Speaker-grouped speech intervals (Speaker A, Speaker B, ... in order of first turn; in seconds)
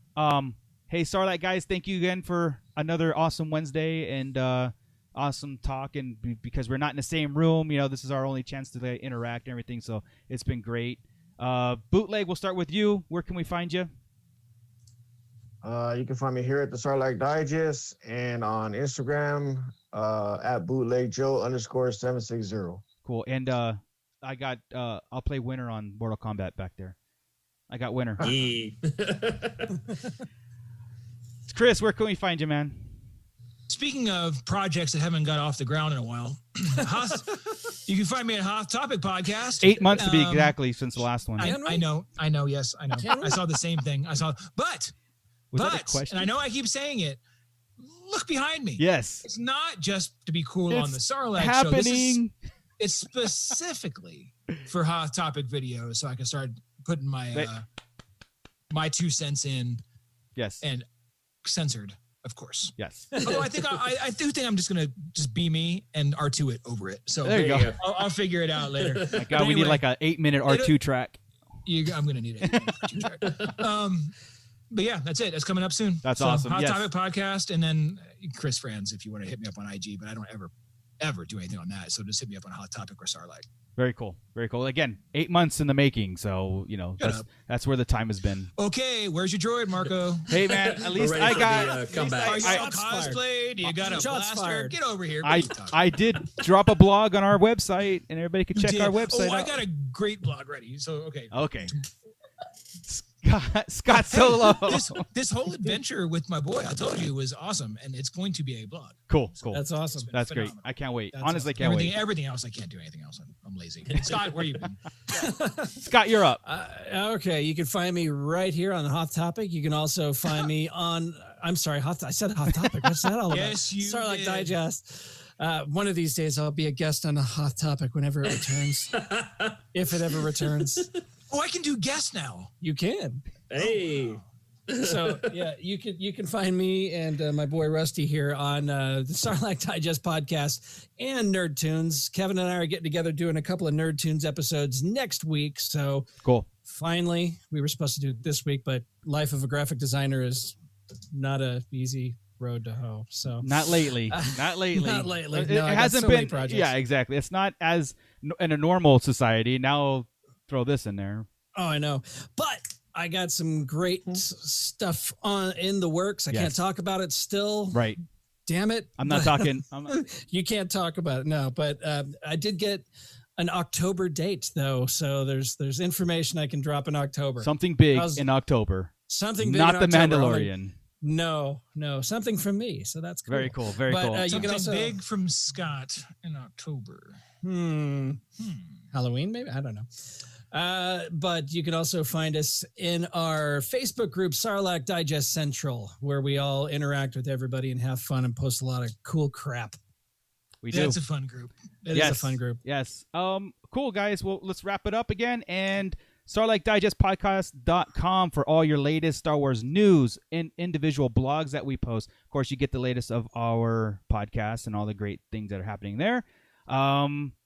Speaker A: 0.2-13.9, 23.1-26.9, 27.7-28.2, 31.5-32.9, 39.6-41.6, 45.5-46.3, 48.8-49.2, 50.7-52.3, 60.4-60.6, 62.8-63.1, 67.2-67.8, 69.1-71.2, 72.4-72.7, 76.0-76.9, 83.8-88.5, 90.3-92.7, 95.2-99.5, 101.3-101.7, 102.9-105.0, 109.1-112.0, 115.8-116.4, 153.4-161.3, 166.3-166.6, 167.7-168.0, 169.0-170.0, 177.4-180.7, 183.3-184.5, 200.6-201.0, 201.9-217.3
Speaker B: 15.6-22.8
Speaker C: 28.2-29.8, 67.3-67.8, 68.8-69.1, 90.8-92.5, 128.9-129.6, 133.5-135.4
Speaker D: 33.7-40.6, 41.4-44.9, 45.5-47.2, 47.8-52.2, 52.8-57.6, 58.7-59.8, 61.4-69.8, 70.5-70.8, 71.7-74.2, 74.7-83.5, 87.0-87.3, 88.6-90.4, 91.2-91.7, 92.2-95.9, 98.5-101.9, 103.9-114.8, 123.3-124.5, 131.3-132.5, 133.6-134.2, 184.3-187.2, 188.4-188.8, 200.7-202.3
Speaker E: 41.4-41.9, 42.9-43.5, 63.1-63.5, 92.3-93.2, 93.8-94.8, 109.5-110.1, 115.1-115.7, 116.4-129.0, 129.7-130.9, 132.6-133.2, 134.8-146.1, 146.7-150.6, 151.1-156.7, 161.6-167.9, 168.5-172.9, 173.4-178.3, 179.1-185.0, 187.4-188.2, 188.9-199.8, 201.9-202.6